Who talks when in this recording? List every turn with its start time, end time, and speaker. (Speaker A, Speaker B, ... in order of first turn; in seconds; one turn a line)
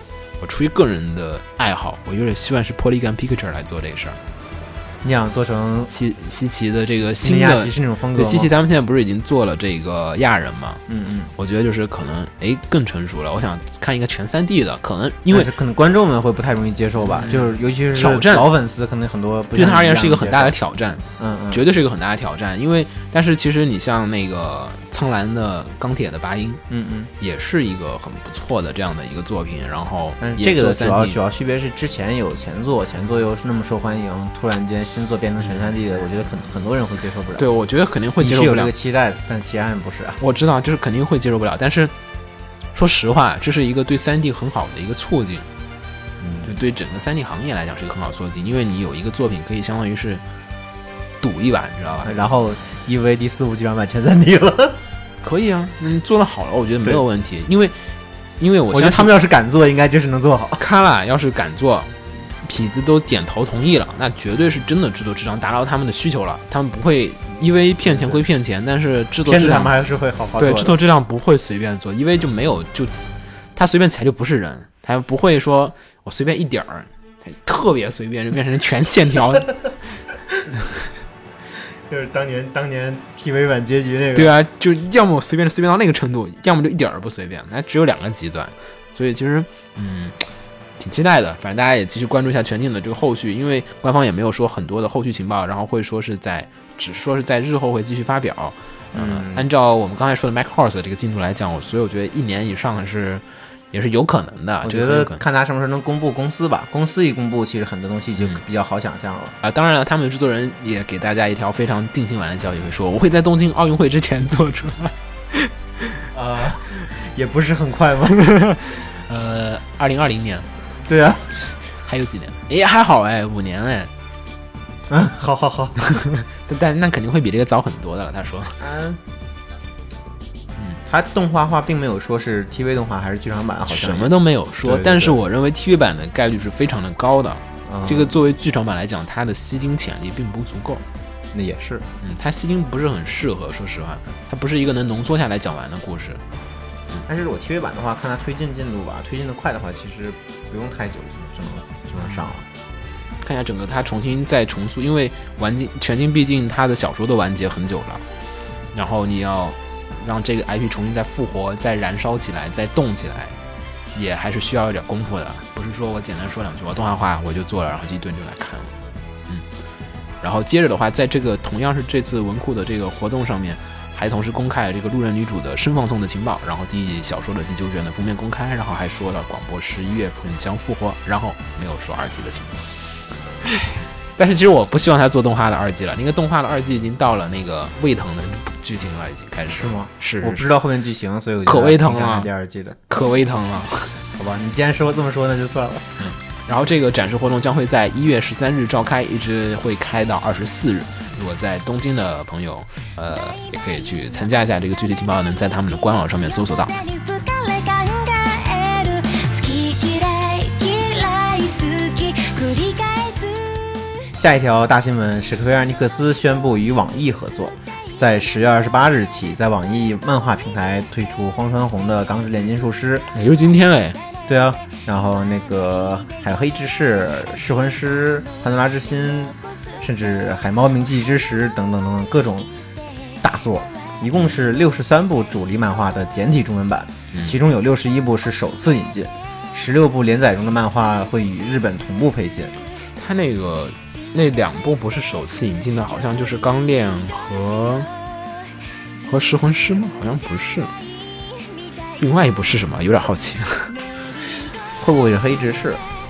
Speaker A: 0.4-4.2
Speaker B: 5.0-5.9
Speaker A: 5.9-10.8
Speaker B: 6.9-8.5
Speaker B: 10.9-11.3
Speaker A: 11.3-15.5
Speaker B: 15.3-20.6
Speaker A: 17.0-18.5
Speaker A: 19.5-26.6
Speaker B: 21.2-21.6
Speaker B: 26.7-27.1
Speaker A: 27.2-31.2
Speaker B: 30.2-37.5
Speaker A: 35.4-35.7
Speaker A: 37.4-38.7
Speaker B: 38.2-40.2
Speaker A: 40.2-41.9
Speaker A: 42.7-45.5
Speaker B: 46.2-46.5
Speaker A: 46.4-50.2
Speaker A: 51.2-52.1
Speaker B: 52.0-54.8
Speaker A: 55.2-57.8
Speaker A: 58.4-59.1
Speaker B: 58.7-60.6
Speaker A: 60.6-69.7
Speaker B: 67.8-68.2
Speaker B: 69.2-70.8
Speaker A: 70.4-72.9
Speaker A: 73.5-79.5
Speaker B: 81.9-84.3
Speaker A: 84.1-90.2
Speaker A: 90.8-105.2
Speaker B: 98.9-99.5
Speaker B: 104.6-109.3
Speaker A: 109.4-116.0
Speaker B: 116.1-118.2
Speaker A: 118.2-120.5
Speaker B: 120.9-121.4
Speaker A: 121.7-123.9
Speaker B: 124.9-125.9
Speaker A: 126.0-128.6
Speaker B: 128.6-129.0
Speaker B: 130.8-134.1
Speaker A: 133.7-140.8
Speaker B: 134.6-135.2
Speaker B: 137.7-138.1
Speaker B: 141.3-141.8
Speaker A: 142.0-146.2
Speaker B: 147.1-152.4
Speaker A: 153.2-158.0
Speaker A: 158.7-163.4
Speaker A: 163.9-168.8
Speaker A: 170.2-182.7
Speaker A: 183.4-190.5
Speaker B: 189.5-192.8
Speaker A: 191.4-192.3
Speaker A: 192.9-194.1
Speaker B: 194.2-196.0
Speaker A: 196.0-206.8
Speaker C: 206.8-214.1
Speaker B: 214.1-223.1
Speaker A: 223.1-224.0
Speaker B: 224.3-232.5
Speaker B: 233.2-242.5
Speaker A: 242.9-247.9
Speaker A: 249.0-250.7
Speaker A: 252.0-253.7
Speaker B: 254.8-255.8